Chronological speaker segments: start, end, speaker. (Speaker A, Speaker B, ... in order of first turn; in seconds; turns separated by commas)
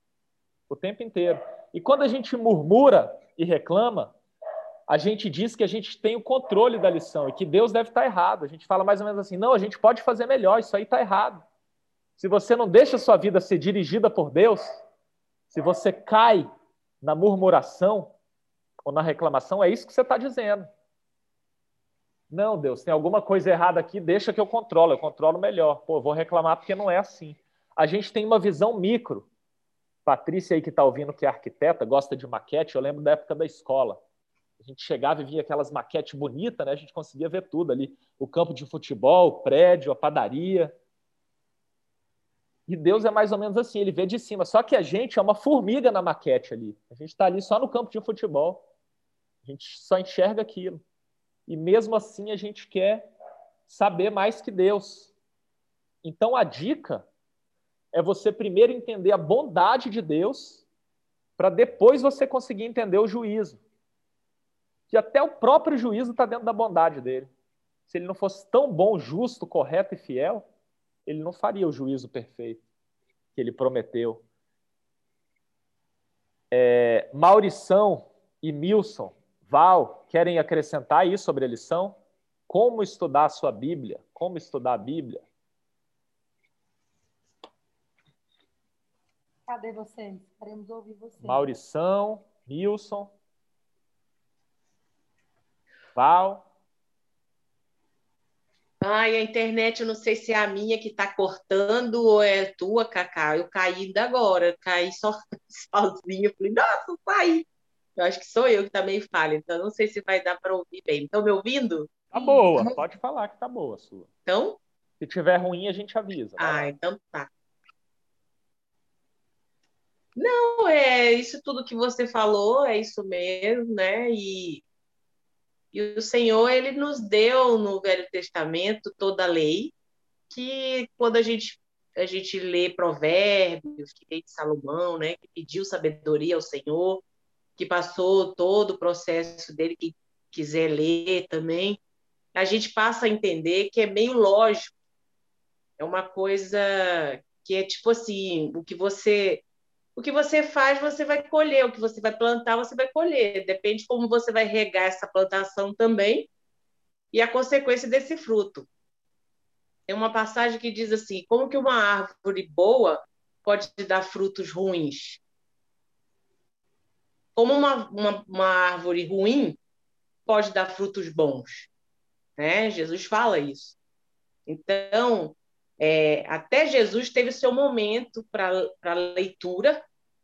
Speaker A: 0.7-4.2, Speaker A: 4.9-11.4, Speaker A: 12.2-14.7, Speaker A: 15.5-16.5, Speaker A: 17.0-18.1, Speaker A: 18.9-20.7, Speaker A: 22.3-29.3, Speaker A: 30.1-34.0, Speaker A: 34.6-40.7, Speaker A: 42.7-48.6, Speaker A: 49.5-50.8, Speaker A: 51.5-53.0, Speaker A: 53.7-55.1, Speaker A: 56.0-57.1, Speaker A: 57.9-60.6, Speaker A: 61.4-63.6, Speaker A: 64.9-67.3, Speaker A: 67.9-70.5, Speaker A: 71.1-72.6, Speaker A: 73.4-74.2, Speaker A: 76.5-82.0, Speaker A: 82.5-85.2, Speaker B: 89.5-91.5, Speaker A: 91.2-93.1, Speaker A: 96.0-96.4, Speaker C: 98.8-112.0, Speaker A: 112.1-114.1, Speaker C: 114.3-114.6, Speaker A: 115.0-116.7, Speaker C: 116.4-117.3, Speaker C: 120.2-124.6, Speaker C: 125.7-129.7, Speaker C: 130.3-137.0, Speaker C: 137.6-141.8, Speaker C: 142.3-144.7, Speaker C: 145.8-149.4, Speaker C: 150.0-156.3, Speaker C: 157.1-158.7, Speaker C: 159.9-165.2, Speaker C: 167.4-169.6, Speaker C: 170.3-171.7, Speaker C: 172.4-173.8, Speaker C: 174.5-179.8